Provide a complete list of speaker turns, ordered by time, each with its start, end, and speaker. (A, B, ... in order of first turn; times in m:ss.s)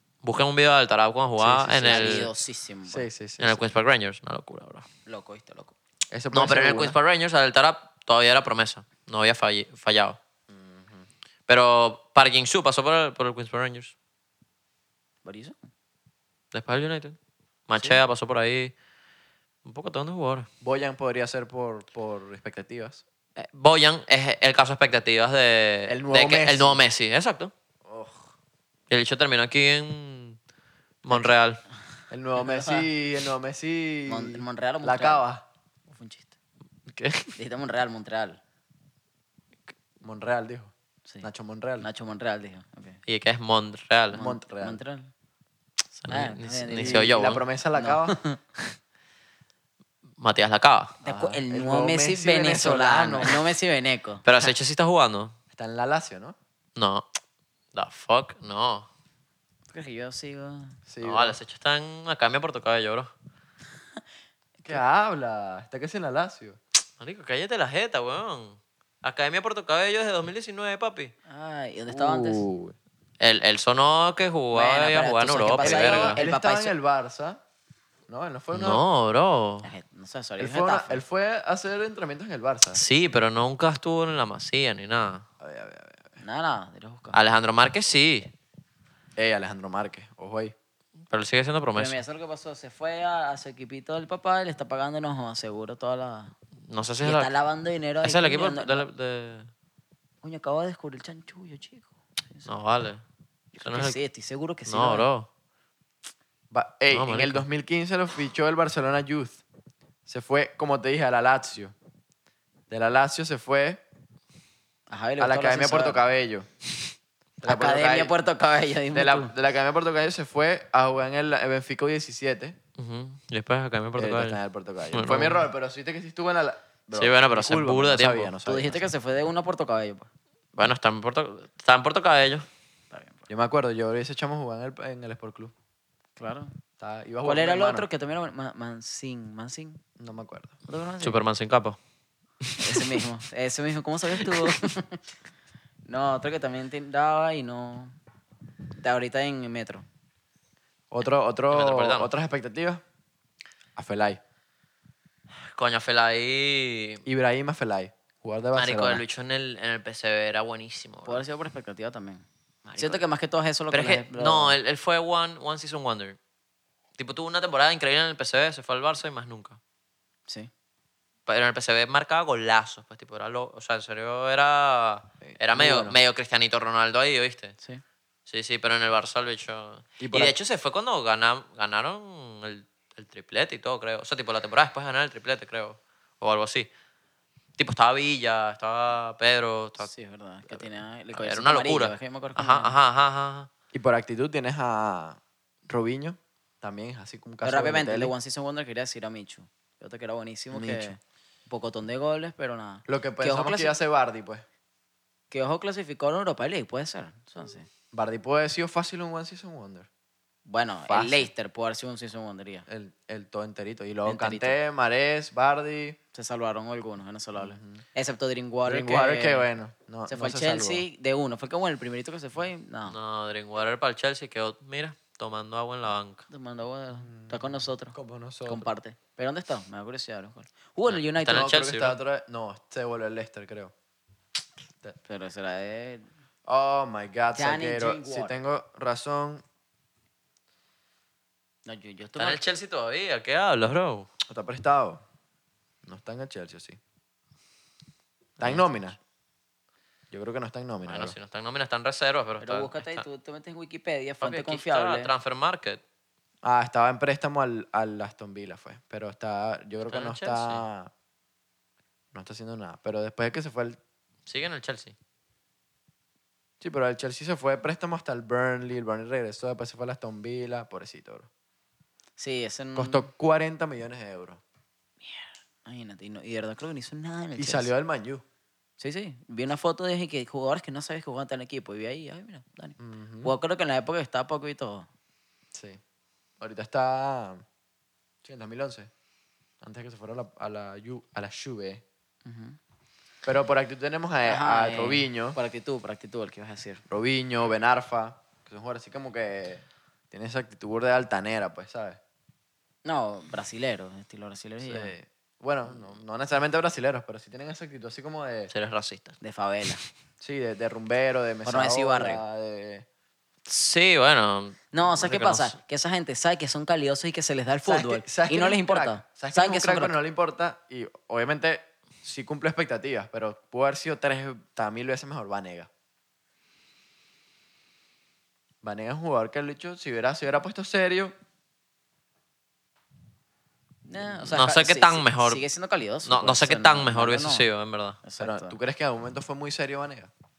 0:00.2-0:02.3 A
0:01.4-0:02.3 B
0:01.8-0:03.0 C
0:02.9-0:03.6 B
0:03.4-0:04.8 A
0:05.0-0:05.7 C
0:06.1-0:07.0 B
0:06.3-0:10.2 A
0:10.5-0:11.1 B
0:11.5-0:13.9 A
0:15.2-0:15.6 C
0:16.5-0:17.2 A
0:17.7-0:18.7 A
0:19.6-0:20.5 A
0:20.6-0:23.0 B
0:23.4-0:27.5 A
0:25.9-0:26.8 B
0:27.8-0:28.3 B
0:28.9-0:30.4 A
0:31.0-0:31.6 A
0:32.1-0:35.4 B
0:32.4-0:32.9 C
0:34.0-0:35.2 C
0:35.9-0:36.3 C
0:36.9-0:37.3 A
0:37.4-0:38.4 C
0:40.0-0:41.9 B
0:41.8-0:43.0 C
0:43.1-0:44.2 A
0:44.1-0:44.8 B
0:44.1-0:45.1 C
0:46.0-0:47.4 A
0:46.1-0:47.1 C
0:46.7-0:48.2 B
0:47.7-0:48.4 C
0:50.2-0:51.0 A
0:51.0-0:54.2 C
0:51.0-0:53.5 B
0:54.2-0:55.3 A
0:55.5-0:56.4 B
0:56.8-0:57.0 A
0:57.7-0:58.9 A
0:59.7-1:00.8 C
1:00.9-1:01.4 B
1:01.0-1:03.1 A
1:04.6-1:06.6 B
1:07.0-1:11.1 A
1:11.3-1:12.4 C
1:11.9-1:12.8 B
1:13.2-1:16.2 A
1:14.5-1:16.7 C
1:15.6-1:17.4 B
1:18.1-1:18.8 B
1:18.5-1:19.7 A
1:19.6-1:21.0 C
1:20.4-1:22.8 B
1:22.7-1:25.2 A
1:25.4-1:26.2 B
1:26.2-1:27.2 C
1:27.1-1:28.3 A
1:29.2-1:30.5 B
1:31.1-1:32.0 A
1:31.7-1:36.3 C
1:36.7-1:37.3 A
1:37.0-1:38.8 C
1:38.0-1:39.5 A
1:40.2-1:42.5 C
1:42.4-1:43.0 A
1:43.6-1:45.1 C
1:43.6-1:44.0 A
1:44.7-1:45.3 A
1:46.5-1:49.4 B
1:46.9-1:47.4 A
1:50.0-1:51.7 B
1:52.7-1:53.8 B
1:54.9-1:56.0 C
1:55.2-1:56.5 B
1:57.4-1:58.1 B
1:57.4-1:59.3 C
1:58.9-2:02.6 B
2:02.8-2:04.4 A
2:04.0-2:08.8 B
2:04.9-2:05.4 A
2:06.9-2:08.3 A
2:08.4-2:10.1 C
2:10.5-2:12.4 A
2:12.9-2:13.3 C
2:13.3-2:15.5 B
2:16.2-2:16.5 C
2:16.8-2:17.8 B
2:17.2-2:19.8 C
2:20.0-2:20.6 B
2:20.7-2:21.2 C
2:21.0-2:21.8 A
2:22.4-2:23.0 A
2:22.6-2:25.0 C
2:24.2-2:24.6 A
2:25.9-2:27.9 C
2:28.8-2:29.8 C
2:30.9-2:32.8 B
2:31.5-2:32.1 A
2:33.8-2:34.2 B
2:35.5-2:37.0 A
2:37.0-2:39.0 B
2:38.6-2:41.2 A
2:41.0-2:42.2 C
2:42.6-2:43.0 A
2:42.8-2:44.6 C
2:43.7-2:46.2 A
2:47.0-2:49.6 A
2:51.2-2:57.6 A
2:55.2-2:56.0 B
2:58.3-3:06.7 A
3:00.0-3:00.4 B
3:07.6-3:09.9 A
3:09.8-3:12.7 C
3:10.5-3:13.5 A
3:13.7-3:18.1 B
3:17.4-3:23.8 C
3:20.5-3:20.9 B
3:22.9-3:24.4 B
3:25.3-3:27.7 C
3:27.9-3:29.9 B
3:30.4-3:32.6 C
3:30.9-3:31.3 B
3:32.7-3:36.0 B
3:34.0-3:34.6 C
3:36.1-3:39.5 C
3:37.4-3:37.8 B
3:38.7-3:40.8 B
3:40.1-3:43.0 C
3:42.9-3:46.2 A
3:46.3-3:47.9 C
3:47.0-3:48.7 B
3:48.4-3:51.5 C
3:51.1-3:52.0 A
3:51.3-3:53.7 B
3:55.0-3:56.0 C
3:56.4-3:59.4 B
3:57.3-3:58.3 C
4:01.6-4:02.4 C
4:02.2-4:04.1 A
4:04.3-4:05.0 B
4:05.8-4:06.8 B
4:08.4-4:09.0 B
4:10.1-4:11.1 B
4:10.9-4:13.0 A
4:12.4-4:15.1 C
4:14.2-4:15.8 A
4:16.4-4:20.9 B
4:19.9-4:20.6 A
4:22.1-4:23.8 B
4:24.3-4:24.9 A
4:26.6-4:31.3 B
4:32.2-4:33.1 C
4:32.7-4:34.4 B
4:35.0-4:37.7 C
4:37.4-4:38.2 B
4:38.8-4:44.9 C
4:42.8-4:43.3 B
4:45.5-4:45.8 B
4:46.4-4:47.4 B
4:48.2-4:48.9 B
4:49.6-4:51.8 B
4:52.2-4:52.6 C
4:53.2-4:55.4 B
4:54.2-4:56.8 C
4:56.9-5:02.0 B
5:02.8-5:04.9 C
5:04.6-5:08.5 B
5:08.5-5:09.2 A
5:09.2-5:09.8 C
5:10.2-5:12.8 B
5:11.4-5:12.2 C
5:13.5-5:15.6 A
5:14.7-5:19.9 C
5:17.6-5:25.7 B
5:28.6-5:31.1 B
5:33.8-5:37.4 C
5:34.2-5:35.4 A
5:36.0-5:38.0 A
5:38.0-5:38.6 C
5:38.2-5:40.1 B